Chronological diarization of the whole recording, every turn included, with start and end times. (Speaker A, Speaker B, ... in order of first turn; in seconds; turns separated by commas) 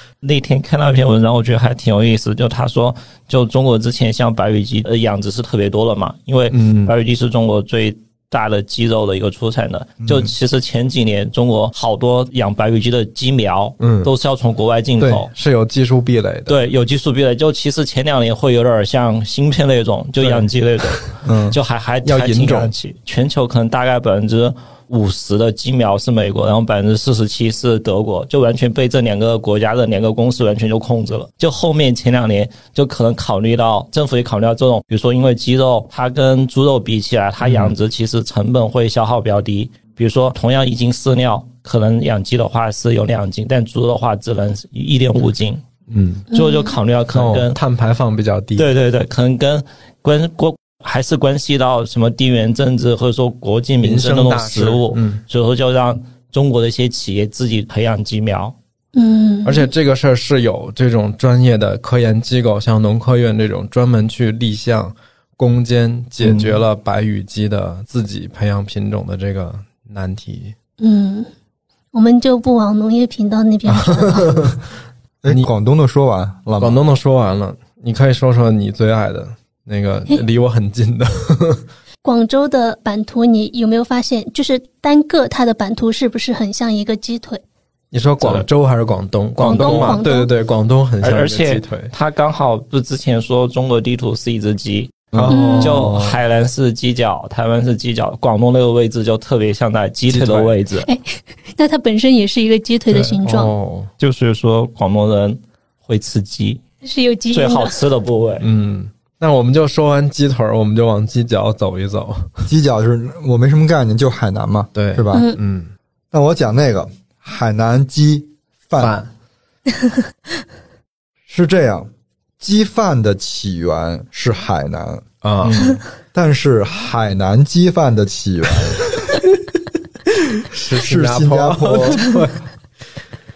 Speaker A: 0.2-15.3, Speaker B: 6.5-6.9, Speaker C: 10.0-10.3, Speaker B: 13.8-14.1, Speaker B: 15.0-16.6, Speaker A: 16.5-45.6, Speaker B: 20.2-20.5, Speaker C: 21.2-21.6, Speaker B: 22.0-22.7, Speaker B: 37.4-37.7, Speaker B: 45.9-46.3, Speaker D: 46.3-46.7, Speaker A: 46.3-47.6, Speaker B: 47.1-48.7, Speaker A: 48.6-58.5, Speaker B: 53.8-55.2, Speaker D: 58.9-59.7, Speaker B: 59.4-70.5, Speaker A: 66.2-66.6, Speaker D: 70.8-71.3, Speaker D: 71.9-74.4, Speaker B: 73.7-74.6, Speaker C: 75.2-76.8, Speaker B: 76.6-81.6, Speaker D: 82.0-87.4, Speaker B: 87.9-91.9, Speaker D: 89.4-90.3, Speaker A: 89.4-90.0, Speaker A: 91.0-100.9, Speaker B: 95.1-96.2, Speaker D: 95.3-95.9, Speaker B: 100.1-100.5, Speaker D: 100.8-103.5, Speaker B: 102.9-103.9, Speaker A: 104.0-106.6, Speaker D: 106.8-107.8, Speaker A: 107.3-108.5, Speaker B: 108.4-112.4, Speaker C: 112.5-115.3, Speaker B: 114.7-115.7, Speaker D: 115.1-115.4, Speaker C: 116.1-118.9, Speaker B: 118.8-119.1, Speaker C: 121.3-125.0, Speaker B: 125.2-125.8, Speaker C: 126.1-129.0, Speaker B: 130.4-132.4, Speaker C: 130.7-132.1